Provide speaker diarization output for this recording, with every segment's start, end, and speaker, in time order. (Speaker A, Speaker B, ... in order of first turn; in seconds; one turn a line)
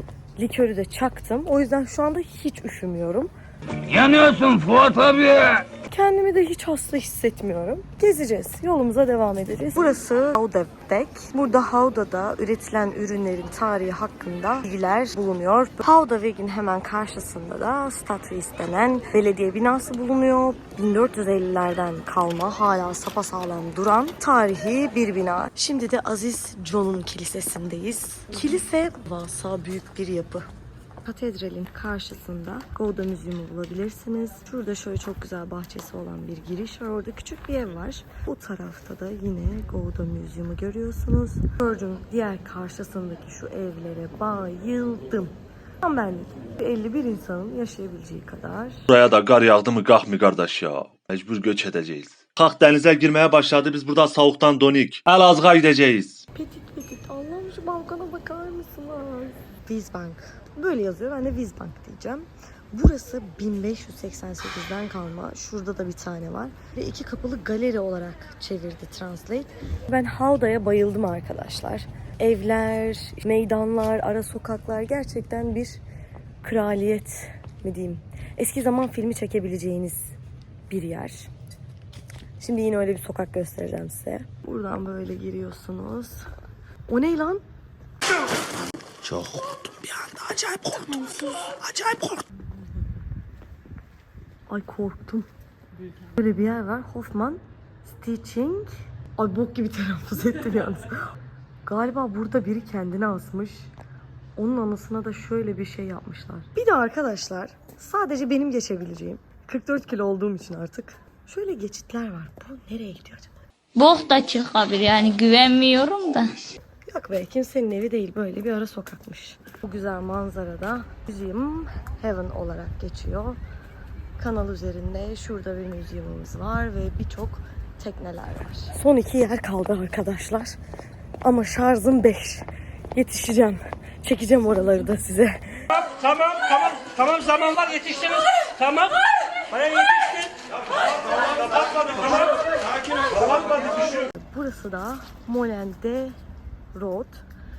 Speaker A: 0.4-3.3
Speaker B: 3.9-5.6
Speaker A: 5.9-30.5
Speaker A: 31.0-48.8
Speaker C: 48.9-56.2
Speaker A: 56.4-75.8
Speaker A: 76.4-80.2
Speaker A: 80.7-81.3
Speaker A: 82.4-86.3
Speaker A: 86.9-87.4
Speaker B: 89.1-89.4
Speaker A: 89.9-92.2
Speaker A: 94.5-95.3
Speaker A: 96.1-101.1
Speaker A: 101.7-103.7
Speaker A: 104.4-113.4
Speaker D: 113.8-116.3
Speaker A: 116.9-123.4
Speaker A: 124.2-130.6
Speaker A: 131.2-137.2
Speaker E: 136.8-138.9
Speaker A: 143.2-146.2
Speaker A: 146.7-147.2